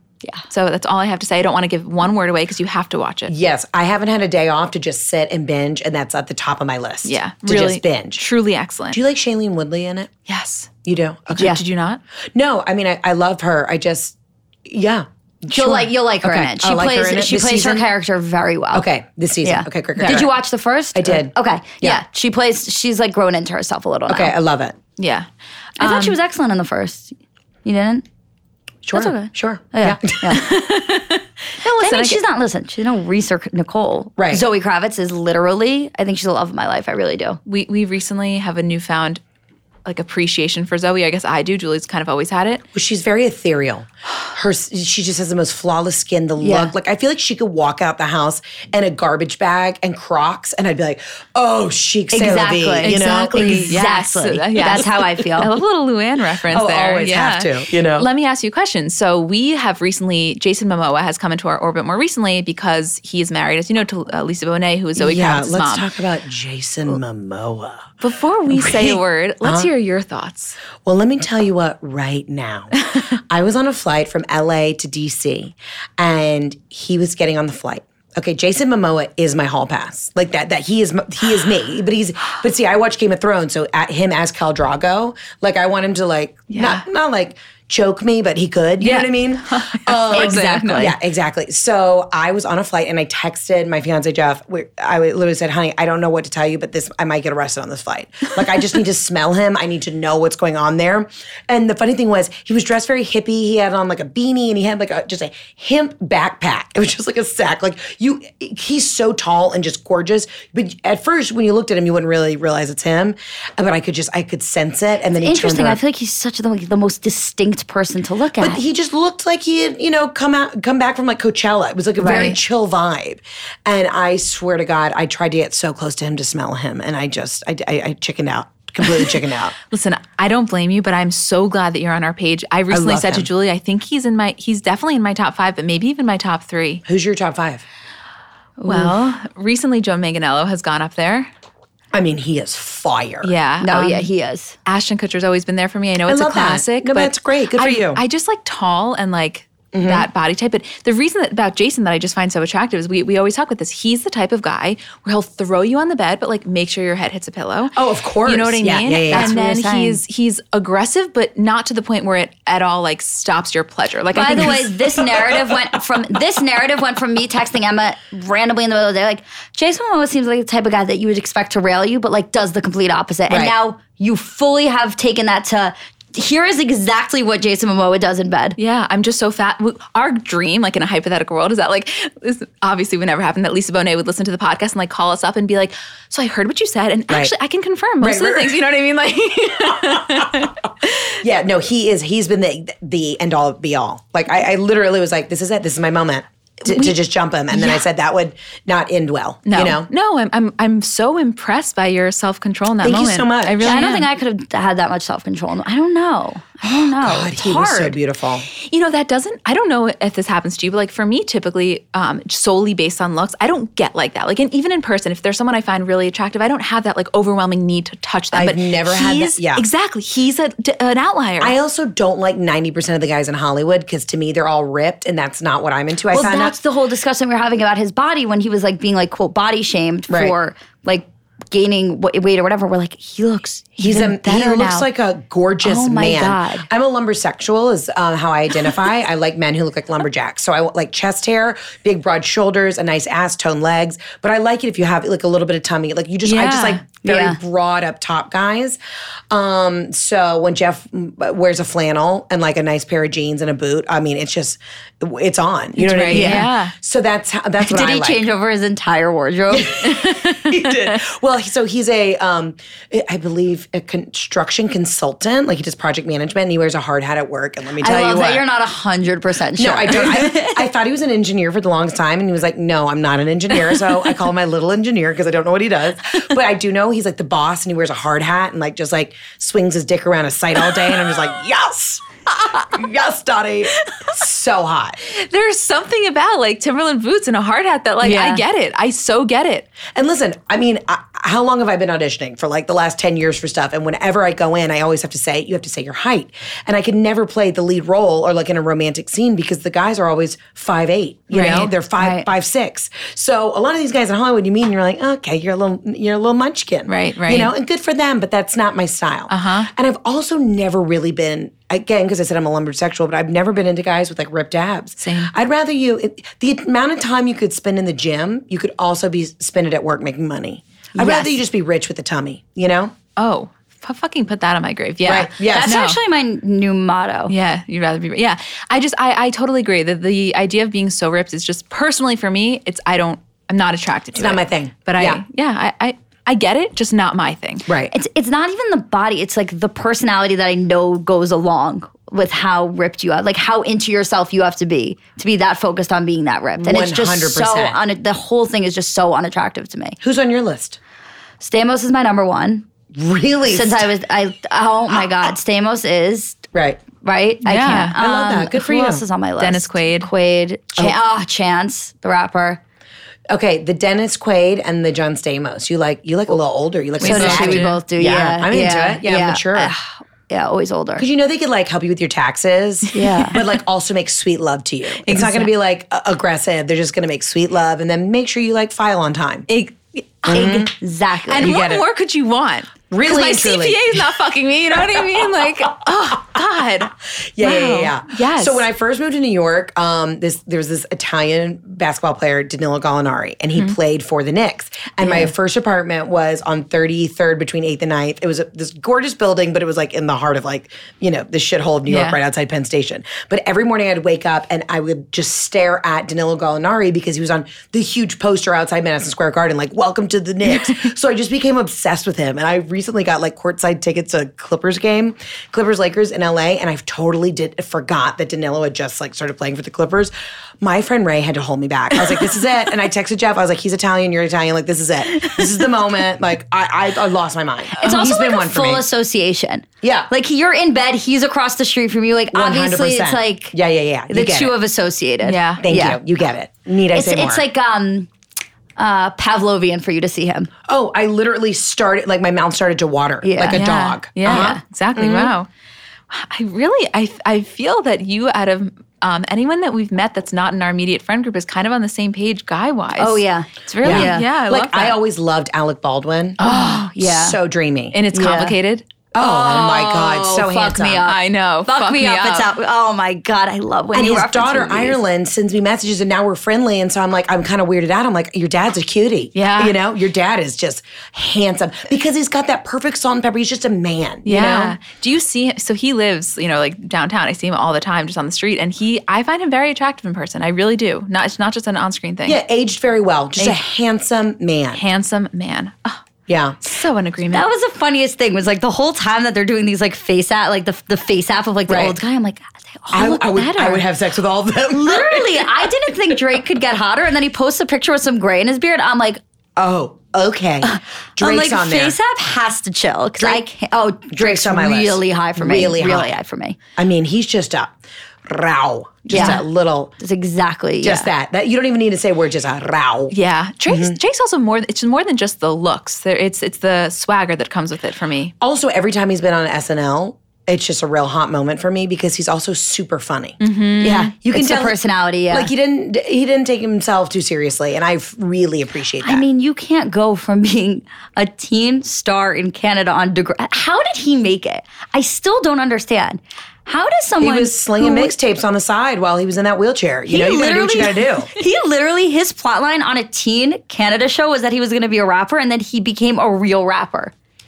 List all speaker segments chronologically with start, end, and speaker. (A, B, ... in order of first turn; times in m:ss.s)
0:00.5-0:03.3 A
0:03.3-0:08.2 B
0:07.0-0:09.0 A
0:08.9-0:10.1 B
0:10.3-0:10.7 A
0:10.9-0:11.6 B
0:11.3-0:12.0 A
0:11.4-0:11.6 C
0:12.4-0:17.9 B
0:15.5-0:18.9 C
0:18.7-0:20.3 B
0:19.4-0:24.3 C
0:20.0-0:20.3 A
0:20.9-0:22.0 B
0:24.1-0:24.8 B
0:25.0-0:25.3 A
0:25.8-0:26.2 A
0:25.8-0:28.0 C
0:28.8-0:30.4 B
0:28.9-0:30.5 C
0:30.3-0:32.2 A
0:31.6-0:37.4 C
0:34.2-0:34.4 B
0:37.5-0:39.2 A
0:39.8-0:42.6 A
0:42.7-0:53.8 B
0:46.4-0:46.7 C
0:52.1-0:55.5 C
0:52.8-1:05.9 A
0:56.5-0:58.1 B
1:05.0-1:07.9 B
1:08.0-1:10.6 A
1:08.5-1:09.7 B
1:10.8-1:55.8 B
1:26.5-1:26.8 A
1:28.8-1:30.8 A
1:30.1-1:31.0 C
1:55.2-1:58.6 C
1:58.4-2:09.6 B
2:02.0-2:02.4 C
2:02.0-2:02.4 A
2:09.7-2:16.8 A
2:12.7-2:13.3 B
2:16.9-2:17.6 B
2:18.6-2:21.3 A
2:21.9-2:23.3 B
2:23.2-2:24.1 A
2:23.6-2:24.6 C
2:24.7-2:45.0 A
2:26.1-2:28.0 B
2:29.7-2:30.1 B
2:37.8-2:39.4 B
2:39.1-2:40.0 C
2:44.1-2:58.6 C
2:44.4-2:45.5 B
2:53.3-2:53.6 B
2:58.6-3:11.2 A
3:08.0-3:08.6 B
3:10.0-3:10.3 B
3:11.2-3:19.9 B
3:16.6-3:17.0 A
3:17.5-3:17.8 A
3:19.5-3:24.1 A
3:22.8-3:23.8 B
3:23.6-3:28.0 C
3:26.7-3:28.5 B
3:28.5-3:41.6 A
3:38.3-3:39.6 B
3:41.4-3:46.6 B
3:46.1-3:54.9 C
3:53.8-4:08.8 B
3:55.6-3:56.7 C
4:06.2-4:06.8 A
4:07.0-4:07.4 C
4:09.3-4:18.2 B
4:15.8-4:16.7 A
4:16.1-4:16.5 C
4:17.6-4:20.2 C
4:19.5-4:28.4 B
4:20.1-4:21.0 A
4:27.8-4:30.6 C
4:29.6-4:45.0 B
4:45.0-4:49.7 A
4:48.0-4:48.4 C
4:49.9-5:23.0 B
5:01.3-5:01.7 A
5:02.0-5:02.3 C
5:06.9-5:07.5 A
5:09.3-5:09.7 A
5:15.0-5:15.3 A
5:21.0-5:21.3 C
5:23.2-5:26.0 A
5:25.0-5:25.8 B
5:25.5-5:27.3 C
5:27.3-5:37.7 A
5:34.2-5:35.2 B
5:37.7-5:37.9 B
5:37.9-5:50.0 C
5:46.6-5:47.8 B
5:50.0-5:50.8 B
5:51.4-5:52.7 C
5:52.9-5:53.9 B
5:53.5-5:56.4 C
5:56.5-5:56.8 B
5:57.0-6:02.6 C
5:57.4-5:58.0 A
5:58.0-5:59.0 B
5:59.4-6:00.1 A
6:03.3-6:09.7 B
6:07.0-6:07.8 A
6:07.0-6:11.1 C
6:11.0-6:19.5 B
6:12.9-6:13.4 C
6:15.0-6:15.5 A
6:19.5-6:20.6 A
6:20.3-6:20.7 B
6:20.3-6:21.6 C
6:21.3-6:28.6 A
6:21.4-6:21.8 B
6:22.9-6:24.0 B
6:27.4-7:08.8 B
6:35.0-6:35.3 A
6:41.9-6:42.2 A
7:07.7-7:13.6 C
7:09.8-7:10.1 B
7:12.3-7:14.6 B
7:14.1-7:16.0 C
7:15.2-7:15.6 A
7:15.6-7:17.4 B
7:16.9-7:18.1 C
7:18.8-7:20.5 C
7:20.7-7:25.4 B
7:23.2-7:23.7 C
7:23.5-7:25.5 A
7:24.3-7:24.6 C
7:26.1-7:35.0 A
7:33.0-7:34.3 C
7:33.8-7:36.4 B
7:36.4-7:36.9 A
7:36.4-7:37.4 C
7:37.0-7:38.0 B
7:37.9-7:38.9 A
7:38.1-7:38.6 C
7:39.1-7:41.1 B
7:39.2-7:45.0 C
7:41.0-7:42.5 A
7:43.9-7:54.8 B
7:49.4-7:49.8 A
7:54.2-8:02.4 A
8:02.3-8:04.8 B
8:04.7-8:06.0 A
8:06.3-8:06.6 B
8:06.6-8:07.5 A
8:07.3-8:13.8 C
8:11.7-8:12.0 B
8:12.9-8:15.7 B
8:14.7-8:19.2 C
8:19.6-8:22.0 B
8:20.6-8:26.6 C
8:23.2-8:23.4 B
8:24.1-8:26.1 B
8:26.8-8:29.9 B
8:29.1-8:29.4 A
8:29.1-8:29.4 C
8:30.0-8:31.1 C
8:30.8-8:33.1 B
8:33.1-8:38.3 A
8:33.7-8:34.0 B
8:38.4-8:44.8 B
8:43.4-8:44.1 A
8:43.8-8:45.5 C
8:45.3-8:49.2 B
8:49.0-8:58.1 C
8:57.2-9:01.3 B
9:00.1-9:07.1 C